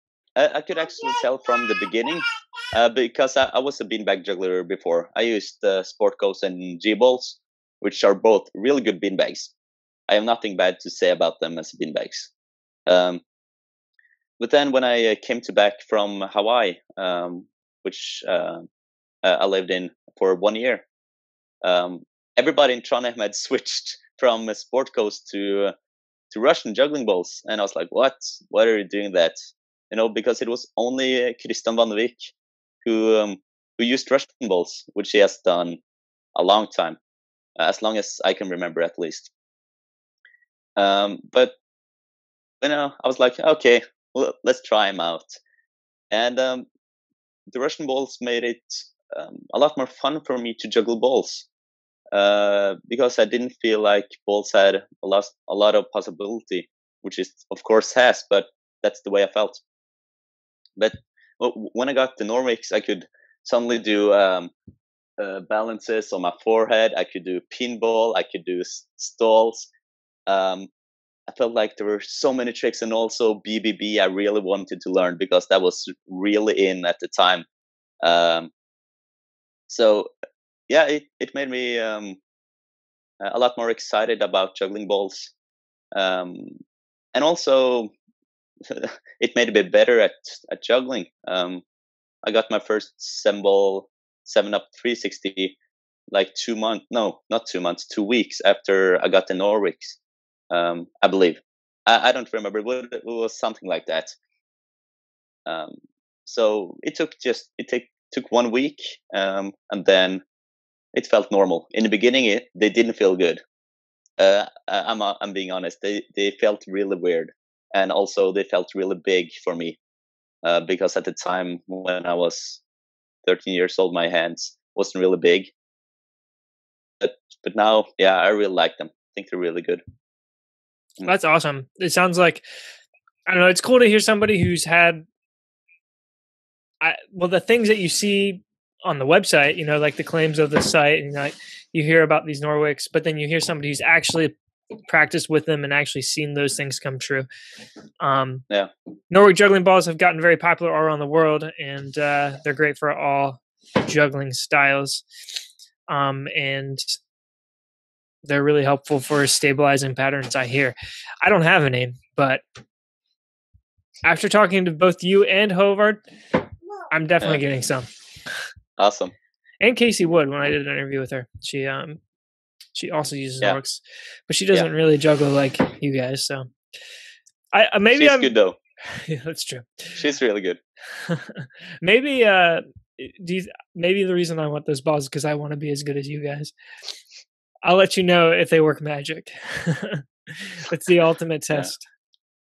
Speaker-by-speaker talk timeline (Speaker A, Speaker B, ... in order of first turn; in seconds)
Speaker A: 0.3-9.5, 10.1-12.3, 12.9-13.2, 14.4-18.7, 19.2-20.8, 21.6-25.7, 26.3-29.4, 29.9-35.8, 36.3-37.0, 37.6-39.3, 40.8-41.5, 42.6-45.4, 46.1-46.7, 47.5-51.5, 52.1-59.6, 60.8-64.5, 65.2-69.7, 70.3-70.7, 71.3-77.5, 78.0-78.5, 79.7-80.1, 80.7-82.2, 83.2-85.3, 85.9-86.6, 87.1-87.9, 88.6-91.6, 92.2-95.5, 96.1-100.0, 100.5-104.2, 105.5-110.2, 110.9-113.4, 114.2-119.8, 120.4-122.6, 123.2-125.5, 127.0-129.8, 168.8-169.1, 177.9-178.6, 179.9-180.6
Speaker B: 131.0-132.4, 133.3-135.0, 136.8-144.3, 144.9-147.3, 148.0-148.4, 149.1-155.0, 155.9-157.0, 158.2-162.4, 164.0-166.0, 166.9-167.9, 169.6-172.0, 172.7-176.5, 177.5-178.3, 178.8-180.0, 180.9-186.5, 187.6-191.8